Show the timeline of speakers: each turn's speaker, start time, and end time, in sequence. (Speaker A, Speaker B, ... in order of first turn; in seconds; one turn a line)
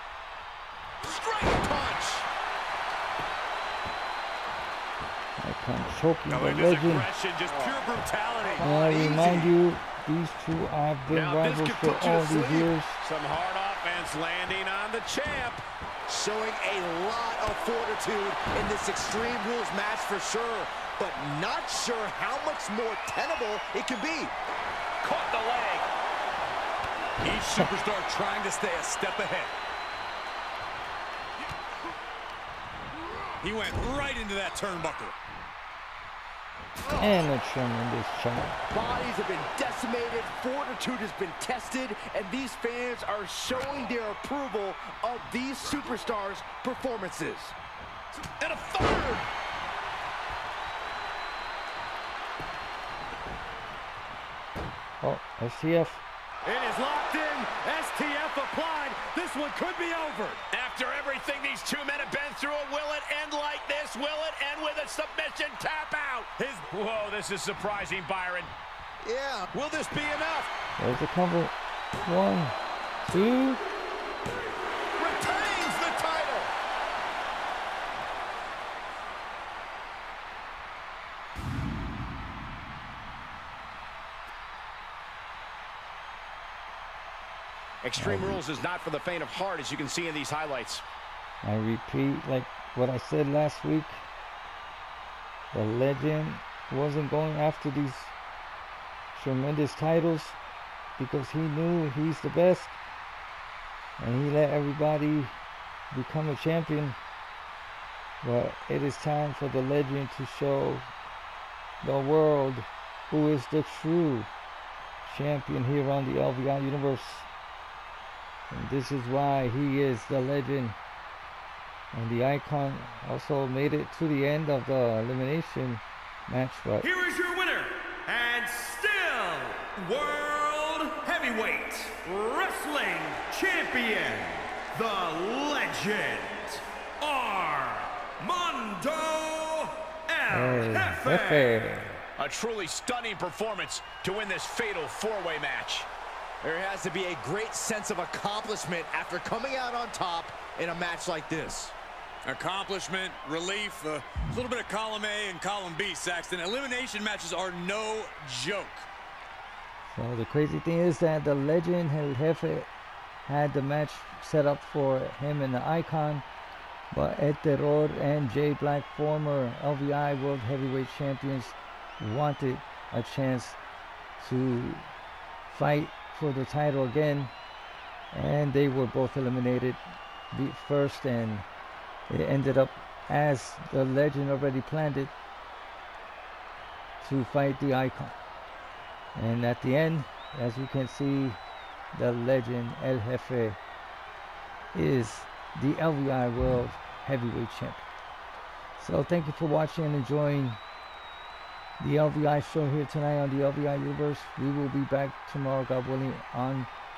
Speaker A: 1.0-2.2
Speaker B: 5.4-7.1
Speaker C: 6.3-8.9
Speaker D: 7.5-7.8
Speaker A: 8.4-9.5
Speaker B: 8.6-13.0
Speaker D: 11.1-12.2
Speaker D: 13.0-15.6
Speaker A: 16.1-24.3
Speaker D: 25.0-25.9
Speaker C: 27.2-29.5
Speaker C: 33.4-35.1
Speaker A: 36.9-37.2
Speaker B: 37.0-38.6
Speaker A: 38.7-47.5
Speaker A: 48.4-49.1
Speaker B: 55.0-56.0
Speaker C: 56.4-60.4
Speaker D: 60.5-68.5
Speaker C: 66.4-66.6
Speaker A: 69.0-69.5
Speaker D: 69.5-70.5
Speaker B: 70.8-73.6
Speaker A: 75.0-76.5
Speaker D: 87.8-90.8
Speaker B: 87.9-88.4
Speaker B: 91.4-94.1
Speaker B: 95.5-98.1
Speaker B: 99.1-100.4
Speaker B: 101.0-102.8
Speaker B: 104.0-105.4
Speaker B: 105.9-107.0
Speaker B: 108.2-110.9
Speaker B: 111.8-114.3
Speaker B: 115.0-117.3
Speaker B: 118.5-120.8
Speaker B: 121.9-126.9
Speaker E: 126.8-141.7
Speaker B: 140.3-142.0
Speaker D: 142.2-145.9
Speaker A: 146.4-151.8
Speaker C: 152.2-158.9
Speaker B: 159.9-162.7
Speaker B: 163.2-166.2
Speaker B: 166.9-173.6
Speaker B: 174.2-174.9
Speaker B: 175.5-177.3
Speaker B: 178.1-181.4
Speaker B: 182.1-185.1
Speaker B: 187.0-188.2
Speaker B: 189.1-191.4
Speaker B: 191.9-193.6
Speaker B: 194.7-197.8
Speaker B: 198.8-200.6
Speaker B: 201.8-206.7